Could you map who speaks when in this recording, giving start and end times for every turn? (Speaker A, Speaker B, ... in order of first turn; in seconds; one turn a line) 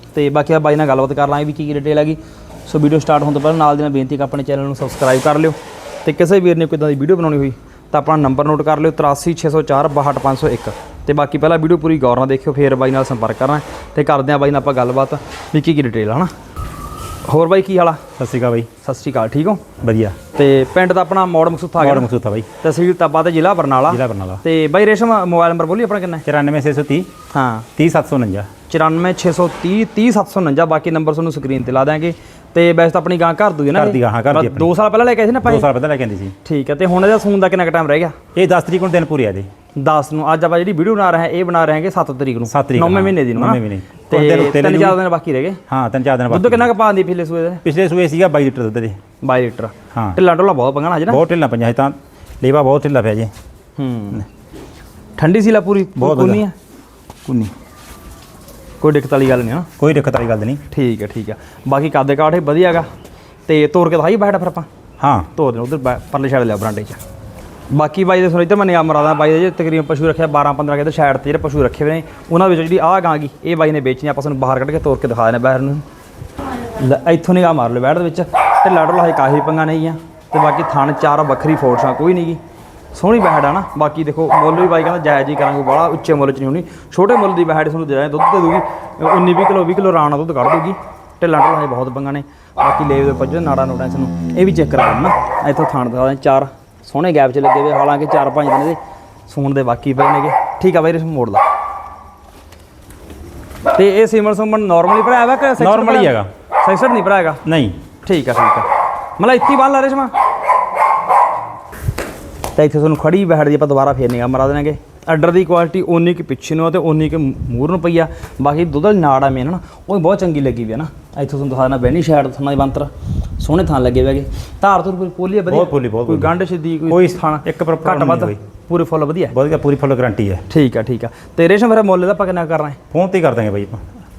Speaker A: 0.1-16.3
Speaker A: 17.2-18.0
Speaker B: 18.2-18.7
Speaker A: 18.8-19.6
Speaker B: 19.8-20.2
Speaker A: 20.3-22.1
Speaker B: 21.8-22.5
Speaker A: 22.6-26.2
Speaker B: 23.9-24.4
Speaker B: 26.2-27.1
Speaker A: 27.3-27.7
Speaker B: 27.8-28.5
Speaker A: 28.7-35.7
Speaker B: 33.7-34.7
Speaker B: 35.4-36.3
Speaker A: 36.4-38.1
Speaker B: 38.3-39.5
Speaker A: 39.8-45.6
Speaker B: 42.5-45.0
Speaker B: 45.7-46.7
Speaker A: 46.3-47.6
Speaker B: 47.6-49.0
Speaker A: 49.2-51.2
Speaker B: 51.1-53.3
Speaker A: 53.8-54.3
Speaker A: 55.2-56.5
Speaker B: 56.0-56.4
Speaker A: 58.8-59.7
Speaker B: 59.8-60.6
Speaker A: 60.7-62.9
Speaker A: 63.5-64.7
Speaker B: 65.0-65.3
Speaker A: 65.3-67.0
Speaker A: 67.7-75.8
Speaker A: 76.7-82.4
Speaker A: 82.9-101.4
Speaker A: 103.7-107.4
Speaker B: 105.6-106.3
Speaker B: 107.4-107.8
Speaker A: 108.0-110.1
Speaker A: 112.5-129.3
Speaker B: 125.5-126.3
Speaker B: 126.9-128.4
Speaker B: 129.3-130.4
Speaker A: 130.5-132.8
Speaker B: 132.9-133.8